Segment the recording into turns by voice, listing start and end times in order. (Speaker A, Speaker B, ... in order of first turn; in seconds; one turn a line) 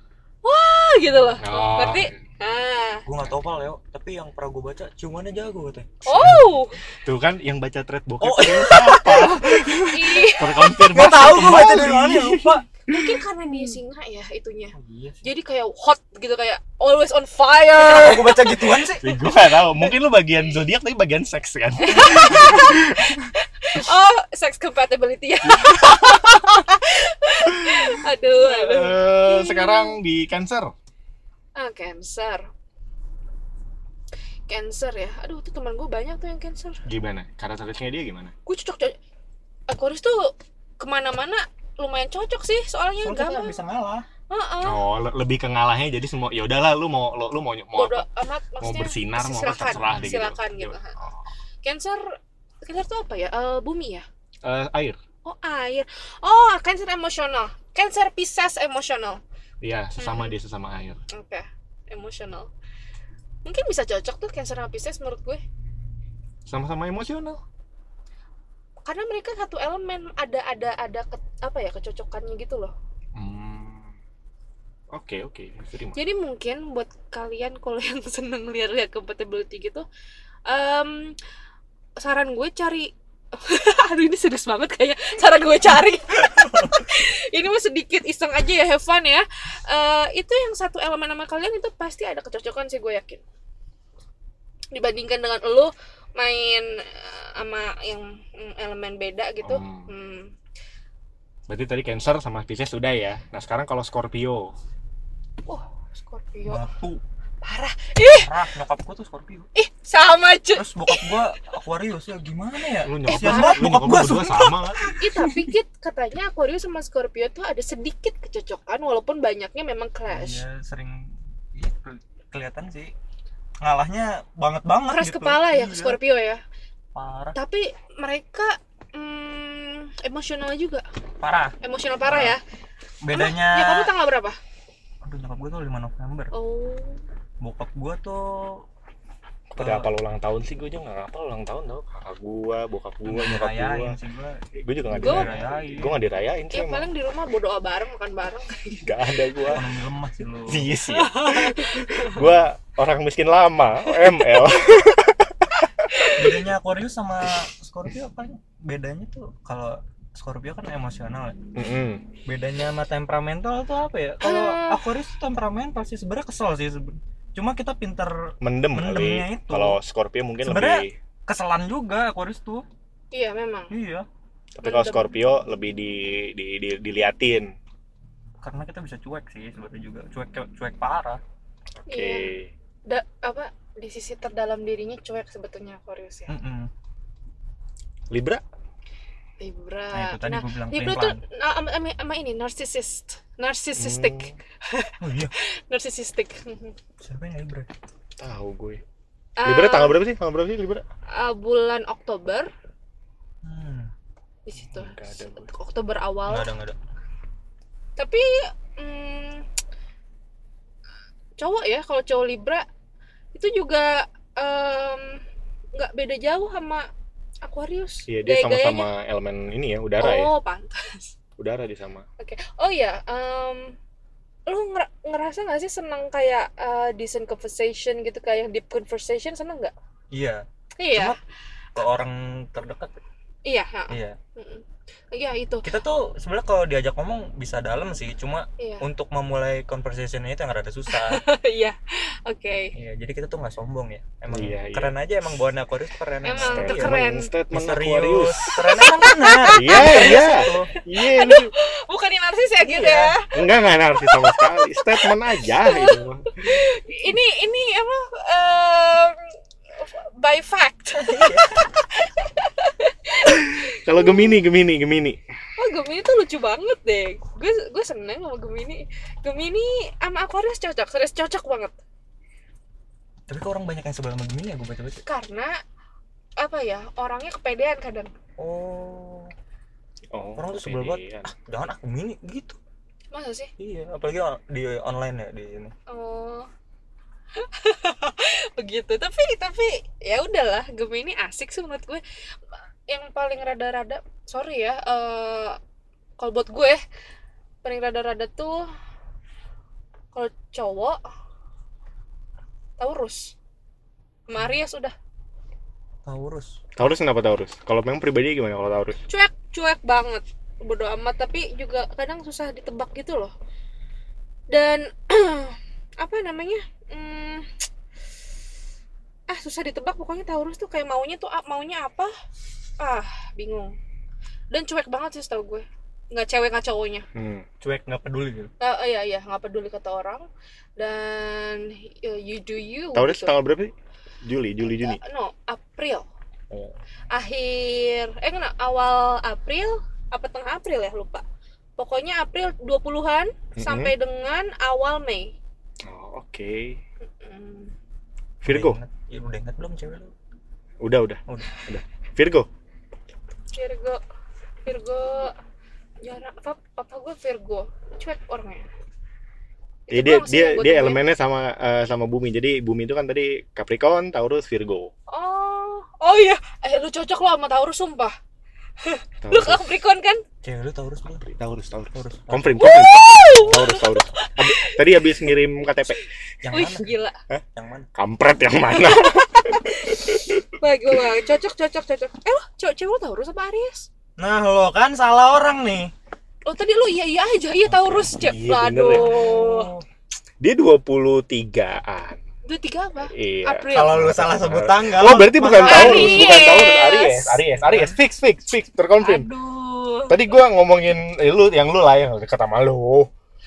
Speaker A: 0.4-3.0
Speaker B: 1.4-2.2
Speaker C: 3.0-6.0
Speaker A: 6.0-6.8
Speaker B: 6.1-13.0
Speaker C: 8.2-9.8
Speaker A: 9.9-10.8
Speaker C: 10.8-12.7
Speaker A: 12.9-18.6
Speaker C: 14.7-15.3
Speaker C: 17.8-19.1
Speaker B: 19.0-23.3
Speaker A: 21.8-29.9
Speaker B: 25.4-26.5
Speaker B: 27.6-30.7
Speaker A: 31.6-32.5
Speaker A: 34.5-36.8
Speaker B: 36.9-38.3
Speaker A: 38.5-39.0
Speaker A: 39.7-43.6
Speaker C: 43.0-44.0
Speaker A: 44.3-44.8
Speaker B: 44.6-48.0
Speaker A: 47.7-51.0
Speaker B: 48.6-51.2
Speaker C: 49.7-50.1
Speaker A: 51.6-54.0
Speaker B: 54.4-55.0
Speaker A: 55.2-59.2
Speaker B: 59.6-61.0
Speaker A: 60.0-60.3
Speaker A: 61.1-62.5
Speaker A: 63.4-65.4
Speaker B: 66.5-67.4
Speaker A: 68.8-72.7
Speaker B: 73.1-73.9
Speaker B: 74.9-76.0
Speaker A: 75.9-79.8
Speaker A: 80.5-81.2
Speaker A: 82.0-93.2
Speaker A: 94.7-100.3
Speaker B: 99.4-99.9
Speaker B: 101.5-104.5
Speaker A: 105.5-106.6
Speaker C: 106.5-107.0
Speaker A: 107.4-108.3
Speaker C: 108.1-109.5
Speaker A: 109.5-111.2
Speaker C: 110.5-115.5
Speaker B: 112.8-114.9
Speaker A: 113.1-113.6
Speaker A: 114.9-120.4
Speaker C: 120.1-122.9
Speaker C: 123.6-126.0
Speaker A: 124.9-126.4
Speaker C: 126.9-127.3
Speaker A: 127.3-130.8
Speaker C: 131.2-132.4
Speaker A: 131.6-132.4
Speaker C: 133.0-133.9
Speaker A: 133.1-134.4
Speaker C: 135.0-136.3
Speaker A: 136.3-137.0
Speaker C: 137.4-138.6
Speaker B: 139.5-144.0
Speaker C: 139.6-139.9
Speaker C: 143.0-146.0
Speaker B: 144.6-146.9
Speaker A: 145.0-145.3
Speaker A: 146.5-148.9
Speaker B: 148.8-149.6
Speaker C: 149.5-150.7
Speaker B: 150.5-155.9
Speaker A: 150.9-152.2
Speaker A: 155.9-156.3
Speaker C: 156.1-161.4
Speaker B: 161.6-162.0
Speaker C: 162.2-169.8
Speaker A: 164.2-164.8
Speaker B: 168.4-170.9
Speaker C: 170.4-172.7
Speaker A: 173.1-173.7
Speaker C: 173.7-174.1
Speaker B: 174.5-177.5
Speaker A: 174.6-175.1
Speaker C: 178.4-181.2
Speaker A: 181.9-182.3
Speaker B: 181.9-182.5
Speaker A: 182.9-186.3
Speaker C: 186.3-186.7
Speaker B: 188.1-188.4
Speaker A: 189.4-196.7
Speaker C: 189.9-191.2
Speaker B: 193.8-194.3
Speaker C: 195.0-195.3
Speaker C: 197.0-197.7
Speaker B: 198.2-198.8
Speaker A: 199.4-200.0
Speaker B: 199.4-200.8
Speaker A: 201.1-202.5
Speaker C: 203.4-203.9
Speaker A: 204.4-206.5
Speaker B: 204.7-205.5
Speaker C: 206.2-206.8
Speaker A: 208.0-209.4
Speaker A: 211.4-212.7
Speaker A: 213.3-215.2
Speaker A: 215.7-216.8
Speaker A: 217.4-218.9
Speaker B: 218.1-220.3
Speaker A: 220.0-221.1
Speaker B: 221.4-222.0
Speaker A: 222.2-223.8
Speaker A: 224.5-229.7
Speaker C: 230.1-231.2
Speaker A: 230.8-231.2
Speaker C: 231.7-233.0
Speaker A: 233.4-235.7
Speaker C: 233.9-234.2
Speaker C: 235.6-241.2
Speaker A: 238.6-238.8
Speaker A: 240.9-242.7
Speaker C: 242.7-246.9
Speaker B: 244.3-245.0
Speaker A: 246.2-247.3
Speaker B: 246.5-248.7
Speaker C: 247.5-250.7
Speaker A: 248.7-253.3
Speaker B: 249.5-251.5
Speaker C: 252.6-253.2
Speaker B: 253.3-256.6
Speaker A: 254.0-254.4
Speaker A: 255.6-259.2
Speaker A: 259.8-264.4
Speaker C: 260.9-261.7
Speaker B: 263.6-265.2
Speaker A: 265.6-271.7
Speaker C: 273.3-275.0
Speaker A: 275.0-275.5
Speaker A: 276.4-278.1
Speaker C: 278.4-279.3
Speaker B: 280.1-281.3
Speaker C: 280.4-282.6
Speaker A: 283.1-283.5
Speaker C: 283.6-285.7
Speaker A: 285.9-286.5
Speaker A: 287.4-292.0
Speaker A: 292.9-295.6
Speaker A: 296.2-296.8
Speaker A: 297.6-298.7
Speaker A: 300.1-301.0
Speaker A: 302.8-303.3
Speaker A: 304.3-304.9
Speaker C: 306.1-306.6
Speaker B: 306.8-309.0
Speaker A: 309.1-313.3
Speaker A: 314.5-317.5
Speaker A: 319.3-322.1
Speaker A: 322.8-323.7
Speaker A: 324.5-327.1
Speaker B: 327.1-327.4
Speaker C: 327.6-328.5
Speaker A: 328.6-333.3
Speaker B: 332.9-333.7
Speaker B: 334.2-335.0
Speaker A: 334.7-336.1
Speaker A: 337.1-341.2
Speaker A: 341.8-345.3
Speaker B: 343.6-343.9
Speaker B: 345.8-346.8
Speaker A: 347.0-347.7
Speaker B: 348.4-348.8
Speaker C: 348.4-350.1
Speaker B: 350.8-352.5
Speaker A: 353.5-354.0
Speaker A: 354.6-355.3
Speaker A: 356.0-358.6
Speaker A: 359.9-361.0
Speaker B: 359.9-364.9
Speaker A: 365.1-368.1
Speaker A: 368.8-370.2
Speaker B: 369.2-369.7
Speaker C: 370.4-371.2
Speaker B: 371.2-376.0
Speaker C: 371.9-372.7
Speaker A: 372.6-374.8
Speaker C: 376.4-376.9
Speaker A: 376.5-377.2
Speaker C: 377.5-377.9
Speaker B: 377.9-380.4
Speaker A: 378.7-383.9
Speaker C: 384.2-385.9
Speaker A: 386.4-389.7
Speaker B: 387.6-389.1
Speaker C: 388.9-389.8
Speaker B: 390.4-392.2
Speaker A: 392.4-394.0
Speaker B: 393.1-399.3
Speaker C: 393.7-396.5
Speaker A: 395.6-397.4
Speaker C: 397.5-398.0
Speaker A: 399.0-400.2
Speaker B: 400.1-403.1